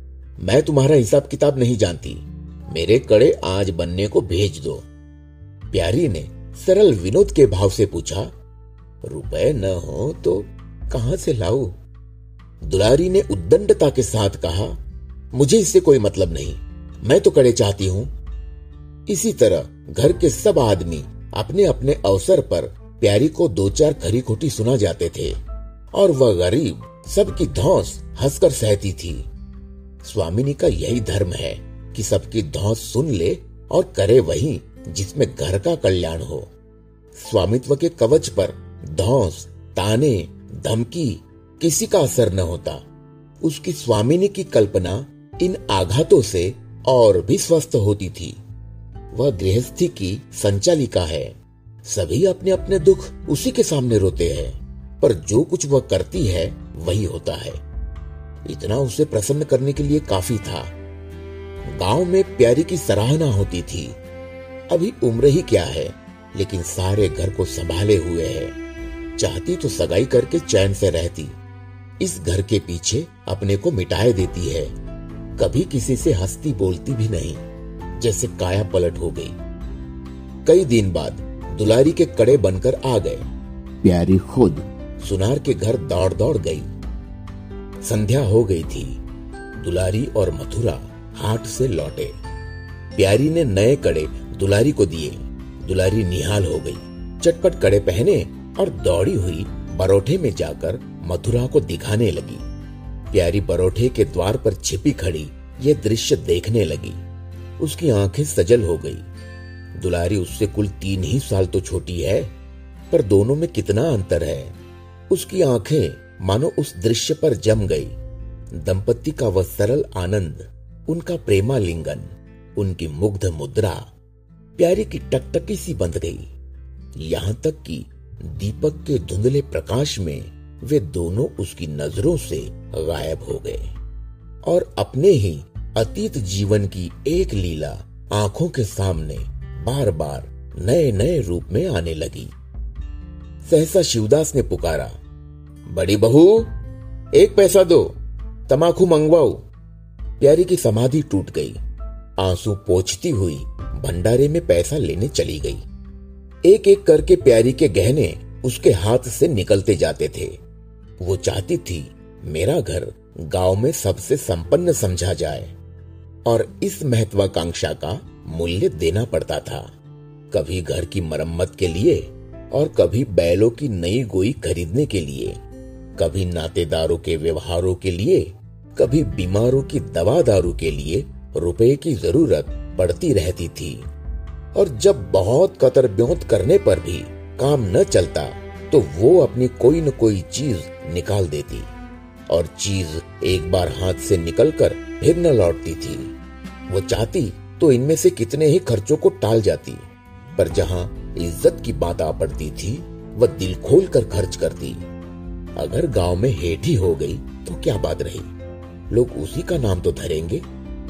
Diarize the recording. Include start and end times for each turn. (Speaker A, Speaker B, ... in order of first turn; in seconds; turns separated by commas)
Speaker A: 0.4-4.9, Speaker A: 5.7-8.3, Speaker A: 9.0-11.8, Speaker A: 12.7-14.8, Speaker A: 15.3-18.1, Speaker A: 19.1-25.4, Speaker A: 25.9-29.2, Speaker A: 30.0-36.5, Speaker A: 37.2-42.8, Speaker A: 43.4-48.4, Speaker A: 49.1-57.6, Speaker A: 58.5-60.7, Speaker A: 61.7-64.0, Speaker A: 64.7-68.5, Speaker A: 69.2-71.4, Speaker A: 72.0-74.7, Speaker A: 75.4-77.4, Speaker A: 78.0-79.3, Speaker A: 80.5-83.3, Speaker A: 83.8-86.7, Speaker A: 87.8-89.0, Speaker A: 89.6-92.2, Speaker A: 93.0-102.4, Speaker A: 103.1-107.0, Speaker A: 107.6-109.0, Speaker A: 109.8-112.3, Speaker A: 112.9-114.5, Speaker A: 115.1-117.9, Speaker A: 118.5-123.8, Speaker A: 124.6-126.3, Speaker A: 127.0-133.7, Speaker A: 134.4-142.3, Speaker A: 143.4-144.9, Speaker A: 145.7-146.5, Speaker A: 147.2-147.9, Speaker A: 148.5-149.4, Speaker A: 150.2-151.6, Speaker A: 152.2-155.6, Speaker A: 156.5-160.4, Speaker A: 161.0-165.5, Speaker A: 166.3-169.7, Speaker A: 170.3-175.4, Speaker A: 176.0-183.8, Speaker A: 184.6-191.7, Speaker A: 192.3-196.1, Speaker A: 196.7-199.8, Speaker A: 200.4-204.8, Speaker A: 205.6-208.3, Speaker A: 208.9-210.4